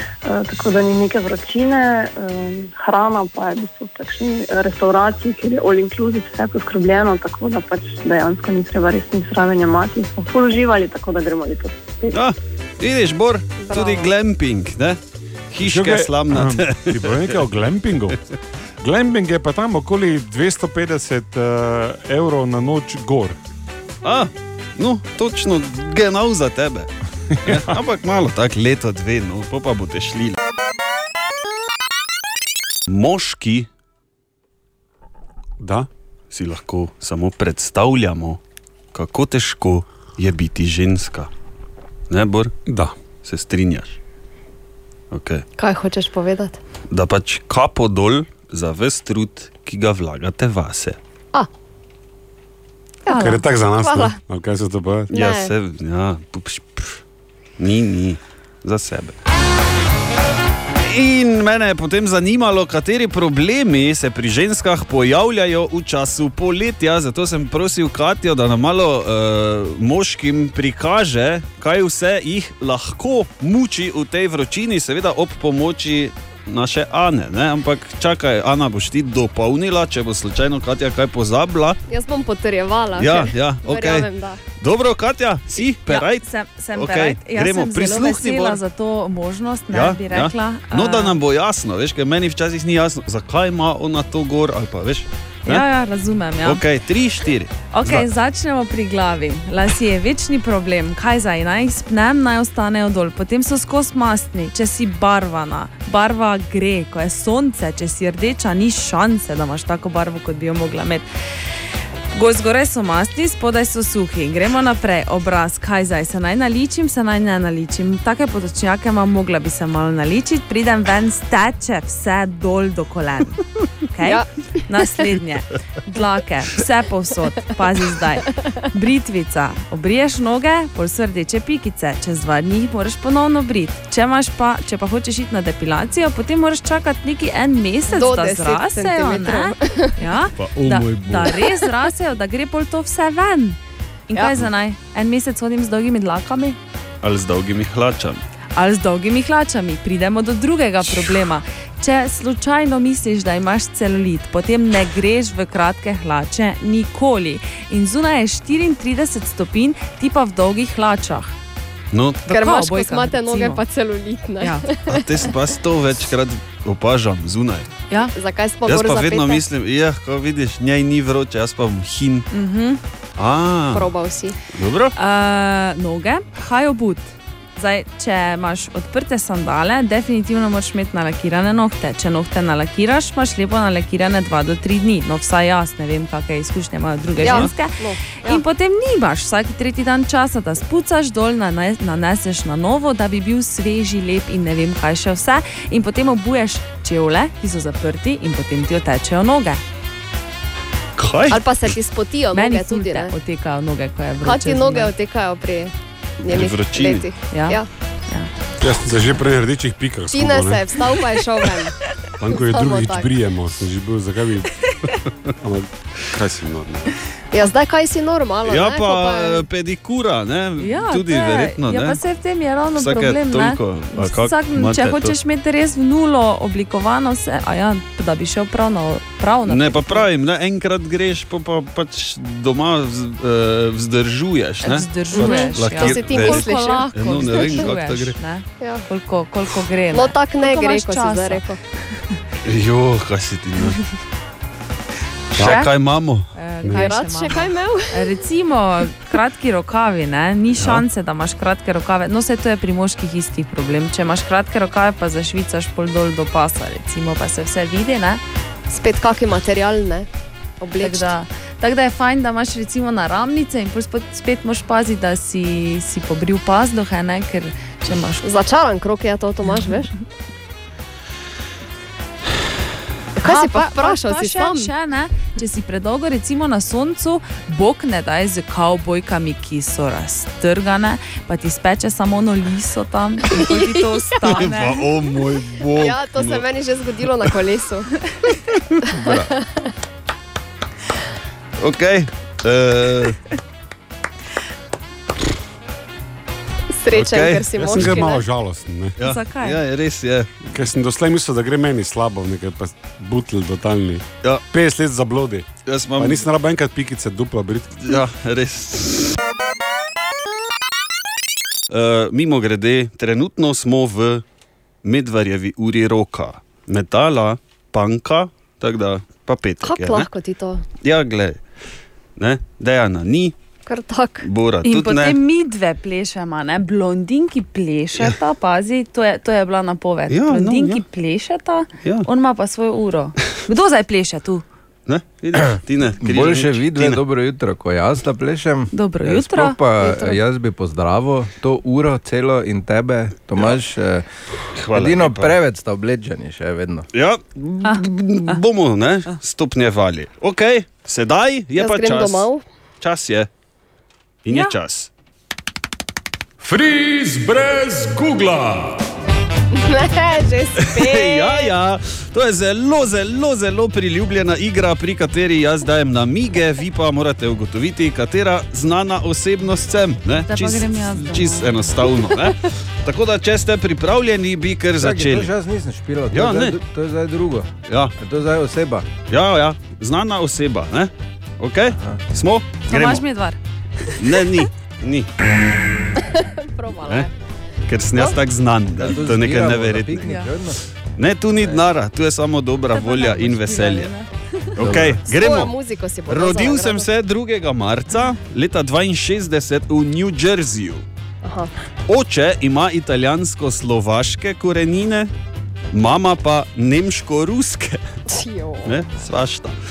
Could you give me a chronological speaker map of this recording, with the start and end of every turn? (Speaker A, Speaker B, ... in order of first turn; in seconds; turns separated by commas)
Speaker A: 0.2-12.2, Speaker B: 12.1-15.0, Speaker C: 13.6-14.1, Speaker B: 15.5-17.4, Speaker D: 15.6-18.2, Speaker D: 18.8-23.4, Speaker B: 24.0-26.9, Speaker D: 27.4-27.7, Speaker B: 27.4-30.4, Speaker B: 32.9-33.7, Speaker D: 35.6-35.9, Speaker B: 36.3-38.4, Speaker B: 38.9-41.3, Speaker B: 42.1-42.5, Speaker D: 42.7-42.9, Speaker B: 43.2-44.0, Speaker B: 45.1-45.5, Speaker C: 45.6-46.6, Speaker B: 46.9-51.0, Speaker C: 53.1-54.2, Speaker D: 53.1-55.1, Speaker C: 55.1-55.5, Speaker B: 55.1-57.0, Speaker B: 57.6-59.1, Speaker B: 60.8-81.8, Speaker C: 81.9-84.4, Speaker B: 83.0-84.1, Speaker B: 84.6-88.6, Speaker E: 85.9-91.2, Speaker B: 89.7-95.7, Speaker E: 95.5-96.6, Speaker B: 96.5-98.1, Speaker E: 97.7-111.1, Speaker E: 112.1-146.6, Speaker C: 124.0-124.3, Speaker C: 137.9-140.0, Speaker B: 140.4-141.4, Speaker B: 147.0-148.2, Speaker E: 148.6-161.3, Speaker B: 161.9-162.2, Speaker E: 162.3-163.6, Speaker C: 162.3-165.2, Speaker E: 164.4-164.7, Speaker B: 164.9-167.7, Speaker C: 168.1-169.4, Speaker B: 168.7-172.3, Speaker E: 172.3-172.8, Speaker B: 173.2-173.9, Speaker C: 173.7-174.4, Speaker B: 174.5-174.9, Speaker E: 175.0-199.6, Speaker C: 187.2-188.4, Speaker B: 187.2-187.5, Speaker B: 201.0-201.4, Speaker C: 201.3-203.1, Speaker E: 202.3-204.9, Speaker C: 204.2-207.7, Speaker B: 206.2-207.1, Speaker E: 207.3-208.3, Speaker D: 208.6-210.7, Speaker C: 210.1-211.8, Speaker D: 212.2-214.5, Speaker C: 212.3-213.1, Speaker D: 215.4-216.9, Speaker C: 217.3-219.4, Speaker B: 218.5-222.0, Speaker E: 220.6-230.1, Speaker B: 222.8-225.2, Speaker B: 229.5-238.2, Speaker E: 234.6-241.4, Speaker C: 235.1-237.7, Speaker C: 238.6-238.9, Speaker C: 239.9-241.6, Speaker B: 242.4-243.8, Speaker B: 245.3-246.9, Speaker E: 245.4-245.7, Speaker E: 246.3-258.2, Speaker C: 246.7-248.2, Speaker B: 250.6-250.8, Speaker C: 258.7-260.1, Speaker C: 260.6-261.1, Speaker E: 260.8-268.3, Speaker C: 268.2-269.9, Speaker C: 273.2-274.7, Speaker E: 273.2-284.9, Speaker C: 283.3-284.3, Speaker B: 284.2-286.5, Speaker C: 285.7-287.9, Speaker C: 288.8-289.7, Speaker B: 288.8-289.3, Speaker B: 291.6-293.2, Speaker C: 296.8-298.2, Speaker B: 296.9-298.0, Speaker D: 297.5-299.0, Speaker B: 299.0-300.5, Speaker E: 299.0-299.6, Speaker D: 300.5-305.5, Speaker B: 305.7-306.3, Speaker D: 306.0-308.0, Speaker B: 307.8-309.1, Speaker B: 311.7-314.2, Speaker B: 314.8-320.1, Speaker C: 319.6-320.6, Speaker B: 320.8-321.4, Speaker B: 322.2-323.3, Speaker C: 323.7-324.3, Speaker B: 324.2-325.2, Speaker E: 324.6-334.4, Speaker B: 330.1-330.8, Speaker B: 334.9-337.0, Speaker F: 336.0-344.1, Speaker E: 338.7-339.9, Speaker B: 344.6-345.4, Speaker F: 344.7-346.9, Speaker B: 346.9-352.3, Speaker C: 351.6-352.4, Speaker B: 352.8-353.3, Speaker B: 354.2-354.9, Speaker E: 354.3-354.5, Speaker D: 356.4-358.8, Speaker C: 359.5-361.5, Speaker B: 360.6-375.3, Speaker E: 370.2-371.5, Speaker F: 374.8-378.9, Speaker B: 376.1-376.6, Speaker B: 377.7-377.9, Speaker B: 379.1-383.1, Speaker F: 381.7-382.0, Speaker E: 382.7-384.2, Speaker B: 384.0-385.1, Speaker C: 386.0-387.1, Speaker B: 387.7-390.1, Speaker F: 388.8-390.6, Speaker E: 390.1-390.3, Speaker B: 391.0-393.9, Speaker F: 391.4-391.6, Speaker E: 392.7-394.1, Speaker B: 394.6-395.6, Speaker F: 394.6-395.0, Speaker C: 395.1-396.9, Speaker B: 396.1-400.8, Speaker C: 401.2-401.5, Speaker B: 401.9-405.1, Speaker B: 405.7-407.8, Speaker C: 408.1-408.7, Speaker B: 408.6-409.6